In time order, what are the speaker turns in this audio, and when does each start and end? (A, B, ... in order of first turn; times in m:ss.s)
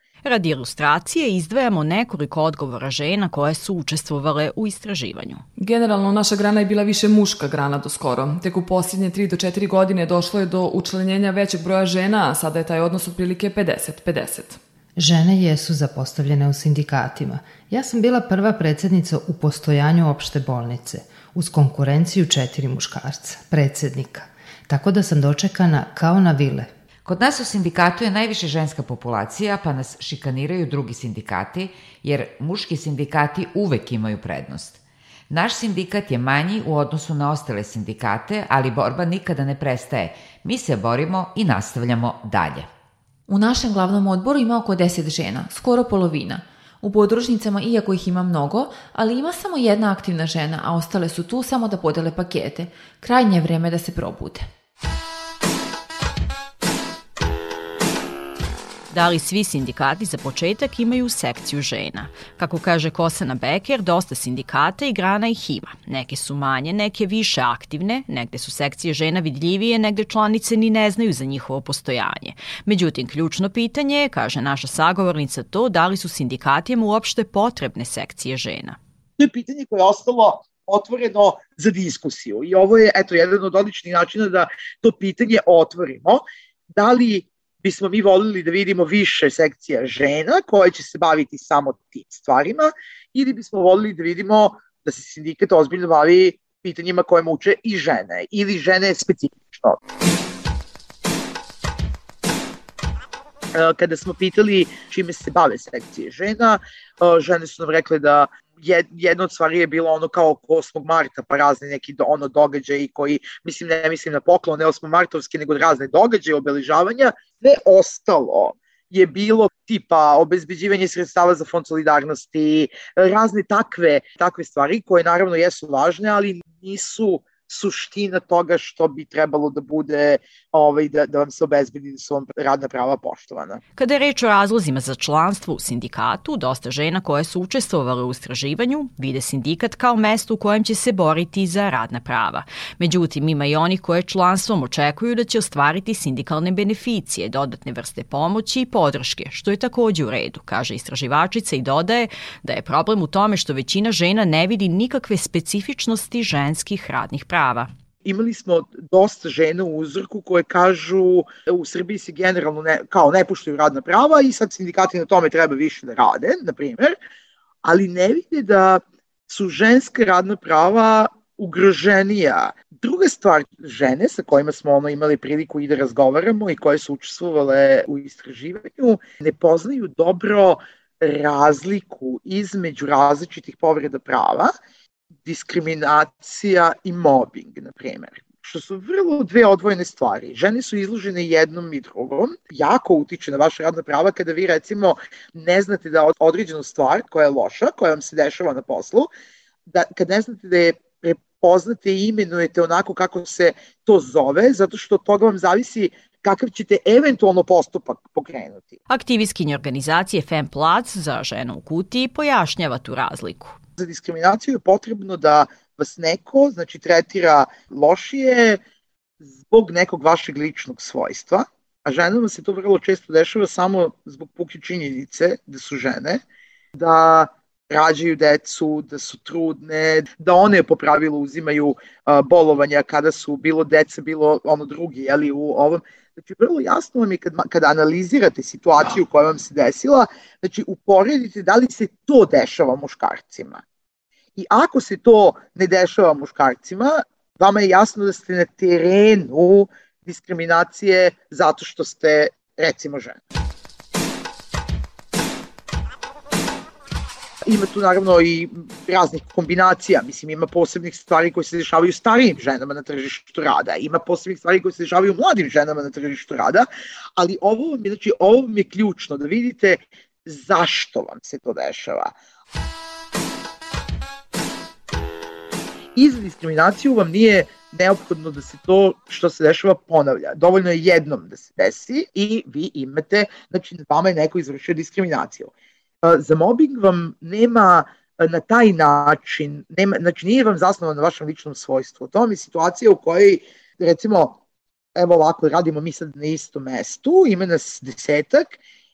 0:00.2-0:05.4 A
0:05.6-0:14.6 B
0:15.0-0:26.7 C
0:27.0-0:34.8 D
0:35.3-0:42.7 D
0:43.3-0:54.5 E
0:58.9-1:18.8 A
1:19.2-1:26.2 F
1:26.7-1:39.8 F
1:43.5-2:13.6 F
2:13.8-2:37.7 A
2:38.0-2:46.9 F
2:47.6-3:04.5 F
3:05.2-3:19.1 F
3:19.7-3:28.8 F
3:28.9-3:33.6 A
3:33.8-3:38.6 F
3:39.3-3:46.2 F
3:46.8-4:03.6 F
4:04.4-4:13.2 F
4:17.4-4:26.6 F
4:27.2-4:32.1 F
4:36.0-4:45.5 F
4:46.0-4:54.4 F
4:55.0-4:58.6 F